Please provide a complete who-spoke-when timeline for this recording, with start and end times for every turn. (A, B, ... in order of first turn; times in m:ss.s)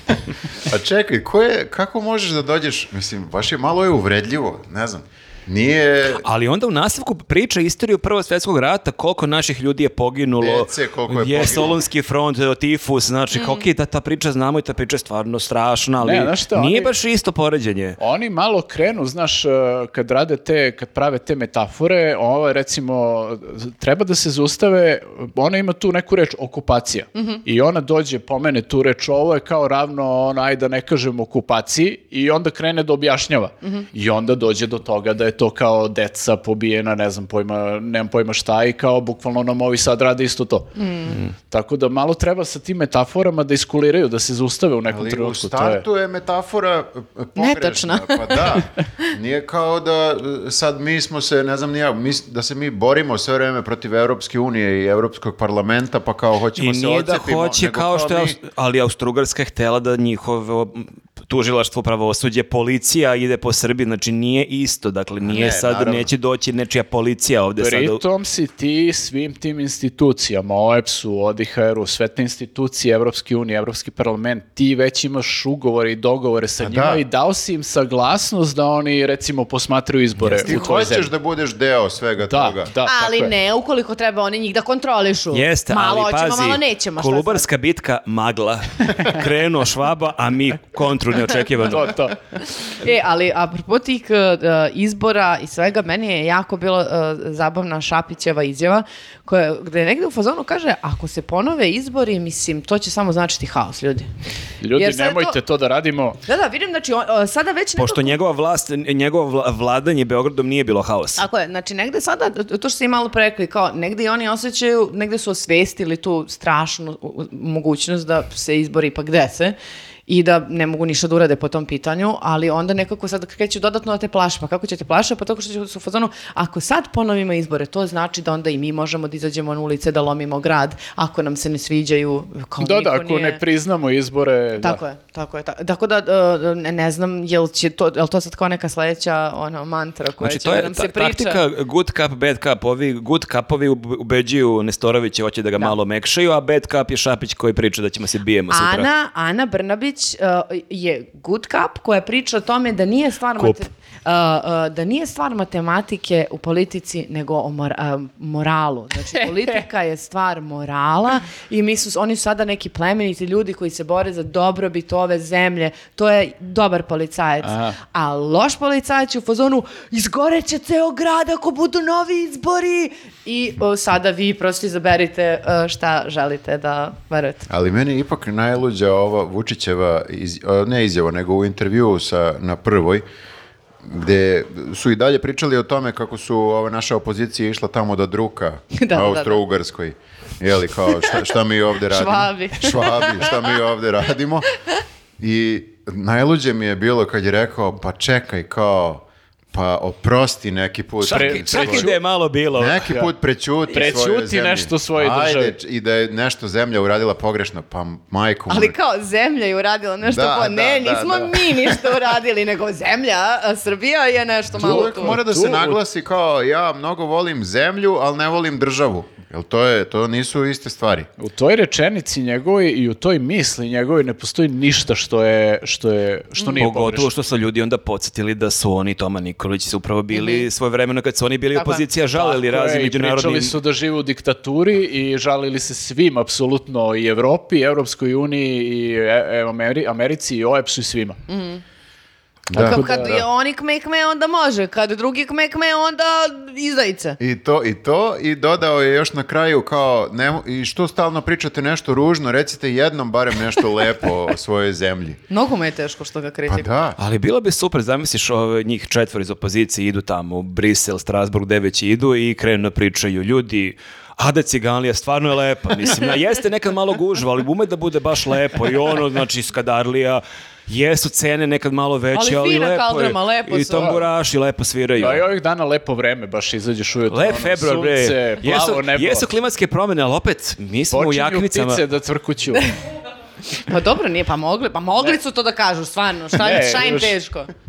0:00.6-0:06.2 A
0:06.2-0:18.0 B
0:10.4-0:11.8 A
0:13.3-0:13.6 C
0:16.0-0:16.9 D
0:18.0-0:45.8 D
0:40.8-0:41.2 C
0:44.9-0:58.4 A
0:47.4-0:48.6 C
0:56.6-1:08.0 B
1:05.2-1:06.1 A
1:07.6-1:21.1 D
1:16.6-1:17.0 A
1:20.2-1:20.5 B
1:20.3-1:22.7 A
1:22.3-1:23.3 D
1:22.8-1:27.5 C
1:25.3-1:32.0 B
1:31.7-1:32.2 D
1:32.6-1:44.1 C
1:44.6-1:46.2 D
1:44.7-1:45.4 C
1:46.3-1:48.2 C
1:47.8-1:51.2 B
1:51.2-1:59.6 C
2:00.1-2:13.4 C
2:12.6-2:14.8 D
2:14.6-2:21.4 C
2:20.2-2:28.9 B
2:28.5-2:57.5 C
2:47.4-2:47.8 D
2:57.5-3:03.0 A
3:03.8-3:14.5 A
3:08.7-3:09.4 C
3:11.9-3:13.5 C
3:15.2-3:21.9 A
3:21.0-3:22.9 B
3:21.1-3:22.0 D
3:22.5-3:28.7 A
3:22.8-3:23.1 D
3:23.7-3:25.5 D
3:28.5-3:35.2 C
3:30.0-3:32.0 A
3:34.6-3:41.1 A
3:34.6-3:35.8 D
3:41.2-3:47.1 D
3:46.6-3:53.6 B
3:50.1-3:50.5 C
3:51.5-3:51.8 C
3:52.1-4:01.2 D
4:01.3-4:01.6 C
4:02.5-4:03.1 A
4:02.5-4:07.2 C
4:02.6-4:03.2 D
4:07.2-4:15.2 A
4:15.3-4:16.7 C
4:16.5-4:17.0 A
4:17.0-4:35.2 B
4:32.1-4:33.9 C
4:35.0-4:39.3 D
4:37.1-4:41.8 B
4:40.9-4:42.7 D
4:43.6-4:47.5 C
4:46.3-4:47.2 D